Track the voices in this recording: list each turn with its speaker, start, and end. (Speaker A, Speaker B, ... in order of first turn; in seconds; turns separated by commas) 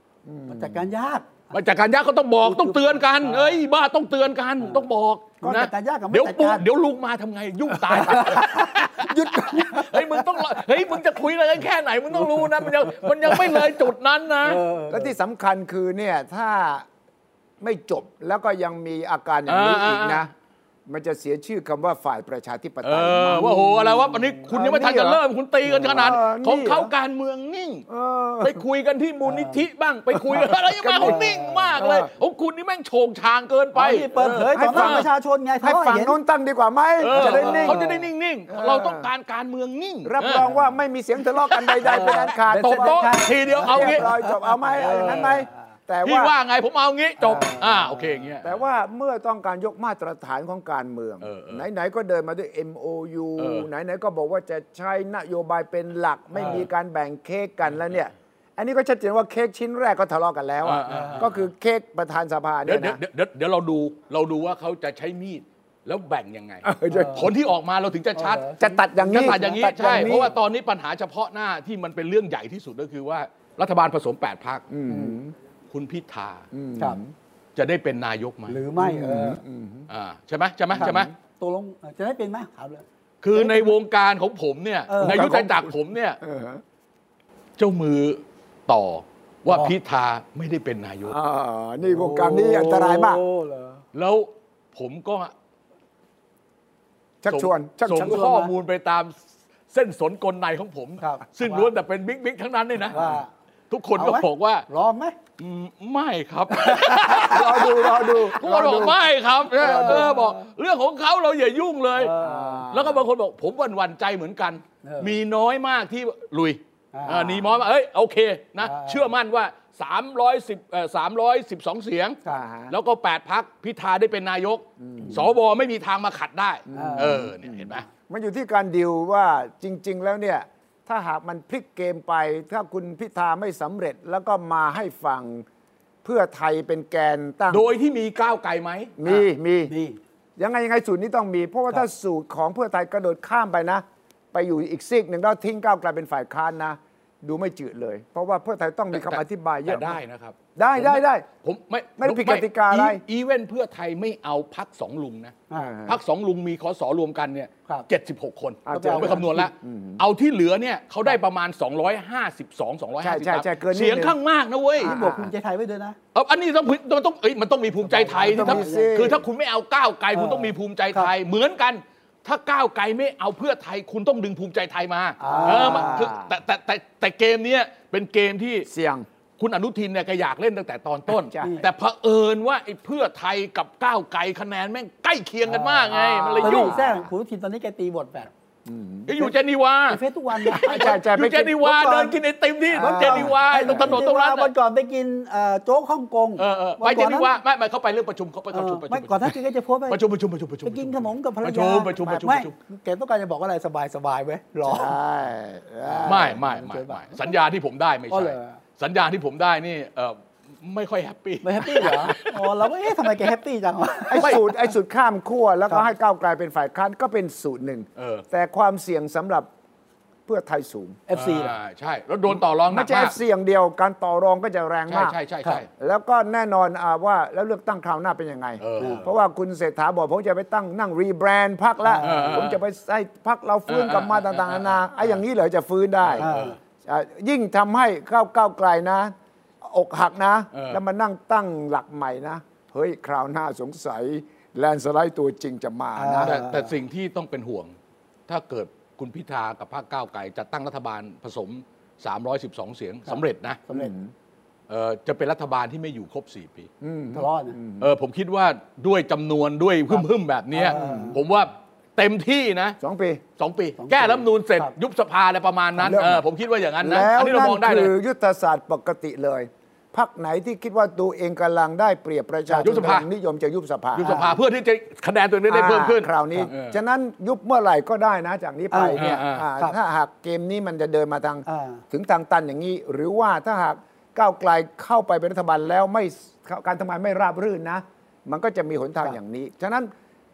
Speaker A: 0.2-0.8, Speaker B: 0.5-1.4, Speaker C: 1.5-14.6, Speaker B: 2.4-3.6, Speaker B: 5.4-6.6, Speaker B: 7.9-10.4, Speaker B: 12.2-13.8, Speaker B: 14.4-15.1, Speaker A: 14.9-16.9, Speaker A: 17.6-20.3, Speaker C: 19.5-20.3, Speaker A: 20.9-23.6, Speaker C: 22.8-27.9, Speaker B: 23.4-24.4, Speaker A: 24.5-25.2, Speaker B: 25.7-26.2, Speaker A: 25.8-26.9, Speaker A: 27.9-28.6, Speaker C: 28.4-35.1, Speaker B: 29.2-29.6, Speaker A: 30.3-32.1, Speaker B: 31.0-31.7, Speaker B: 33.7-36.2, Speaker A: 34.5-35.1, Speaker A: 35.6-37.8, Speaker C: 37.0-40.4, Speaker B: 37.1-38.1, Speaker A: 38.5-39.1, Speaker A: 40.0-46.3, Speaker B: 40.4-40.7, Speaker C: 41.5-44.1, Speaker B: 41.8-45.5, Speaker C: 44.8-45.4, Speaker C: 46.0-48.6, Speaker B: 47.2-48.2, Speaker A: 48.4-63.0, Speaker C: 51.2-51.6, Speaker C: 53.4-53.7, Speaker B: 56.4-56.6, Speaker C: 60.6-61.5, Speaker B: 60.9-61.3, Speaker C: 62.6-68.5, Speaker A: 66.6-67.3, Speaker B: 66.9-67.3, Speaker B: 68.2-70.2, Speaker A: 68.6-70.3, Speaker C: 69.0-74.7, Speaker A: 74.7-75.3, Speaker B: 74.9-75.2, Speaker C: 75.7-76.4, Speaker A: 76.5-77.1, Speaker C: 77.5-78.6, Speaker B: 78.5-79.4, Speaker A: 78.8-79.9, Speaker C: 79.9-81.1, Speaker A: 80.7-81.1, Speaker B: 80.8-83.7, Speaker C: 83.2-86.2, Speaker B: 84.9-85.3, Speaker A: 85.0-86.6, Speaker C: 87.6-91.2, Speaker A: 91.0-93.2, Speaker B: 91.8-93.8, Speaker C: 93.9-95.3, Speaker A: 97.2-98.2, Speaker C: 97.3-99.1, Speaker B: 97.9-98.5, Speaker C: 99.7-103.2, Speaker B: 101.0-101.7, Speaker B: 102.9-103.3, Speaker C: 103.7-104.6, Speaker B: 103.9-105.2, Speaker C: 105.4-112.2, Speaker B: 106.5-108.0, Speaker A: 107.2-109.0, Speaker A: 109.6-110.1, Speaker B: 109.6-110.5, Speaker B: 112.0-112.7, Speaker A: 112.2-113.0, Speaker C: 112.7-127.8, Speaker B: 114.8-115.2, Speaker B: 116.9-117.5, Speaker B: 118.6-119.1, Speaker A: 122.2-122.7, Speaker A: 124.8-125.2, Speaker A: 126.7-135.4, Speaker B: 126.7-127.3, Speaker A: 136.0-137.7, Speaker C: 137.5-138.9, Speaker A: 139.0-139.7, Speaker B: 139.0-140.0, Speaker A: 140.4-150.0, Speaker C: 148.9-164.9, Speaker A: 150.6-151.3, Speaker A: 152.0-153.0, Speaker A: 155.5-156.0, Speaker A: 158.7-160.0, Speaker B: 158.7-159.5, Speaker A: 163.0-164.2, Speaker A: 164.8-165.3, Speaker B: 164.8-166.0, Speaker C: 166.1-178.7, Speaker B: 167.8-169.0, Speaker A: 168.3-169.2, Speaker B: 170.1-171.1, Speaker B: 175.2-176.1, Speaker A: 175.3-176.3, Speaker A: 178.7-179.1, Speaker C: 179.4-186.7, Speaker A: 181.1-181.6, Speaker B: 181.4-181.7, Speaker B: 185.5-188.3, Speaker A: 185.9-187.1, Speaker A: 188.7-189.1, Speaker C: 189.1-194.5, Speaker B: 189.9-190.7, Speaker A: 190.5-192.2, Speaker A: 192.7-194.0, Speaker B: 192.8-197.3, Speaker C: 196.4-199.4, Speaker B: 198.5-200.0, Speaker C: 199.9-202.5, Speaker B: 200.6-204.9, Speaker A: 204.6-206.4, Speaker B: 205.8-207.3, Speaker C: 206.0-212.6, Speaker B: 208.1-208.6, Speaker B: 211.4-214.5, Speaker A: 214.1-219.5, Speaker C: 218.0-218.2, Speaker A: 220.3-221.0, Speaker B: 221.1-221.5, Speaker C: 221.1-223.2, Speaker A: 222.3-225.2, Speaker C: 224.9-225.7, Speaker A: 225.8-236.3, Speaker C: 228.6-229.1, Speaker B: 228.8-229.0, Speaker B: 231.8-232.5, Speaker C: 232.0-232.6, Speaker C: 233.7-235.2, Speaker C: 236.0-236.5, Speaker B: 236.2-236.6, Speaker A: 236.8-246.4, Speaker C: 240.5-240.8, Speaker B: 246.0-246.7, Speaker C: 246.2-247.7, Speaker C: 248.3-253.6, Speaker B: 253.1-253.9, Speaker A: 253.7-254.1, Speaker C: 254.7-256.7, Speaker A: 256.8-257.9, Speaker B: 257.1-257.6, Speaker C: 257.8-262.8, Speaker B: 259.9-261.1, Speaker A: 260.7-261.2, Speaker A: 262.8-263.2, Speaker C: 263.4-267.9, Speaker B: 263.8-264.7, Speaker A: 265.8-266.2, Speaker A: 266.8-274.2, Speaker C: 272.6-273.1, Speaker C: 273.9-276.8, Speaker B: 274.0-274.4, Speaker A: 275.5-289.9, Speaker B: 278.7-279.8, Speaker C: 279.0-279.4, Speaker B: 281.4-281.8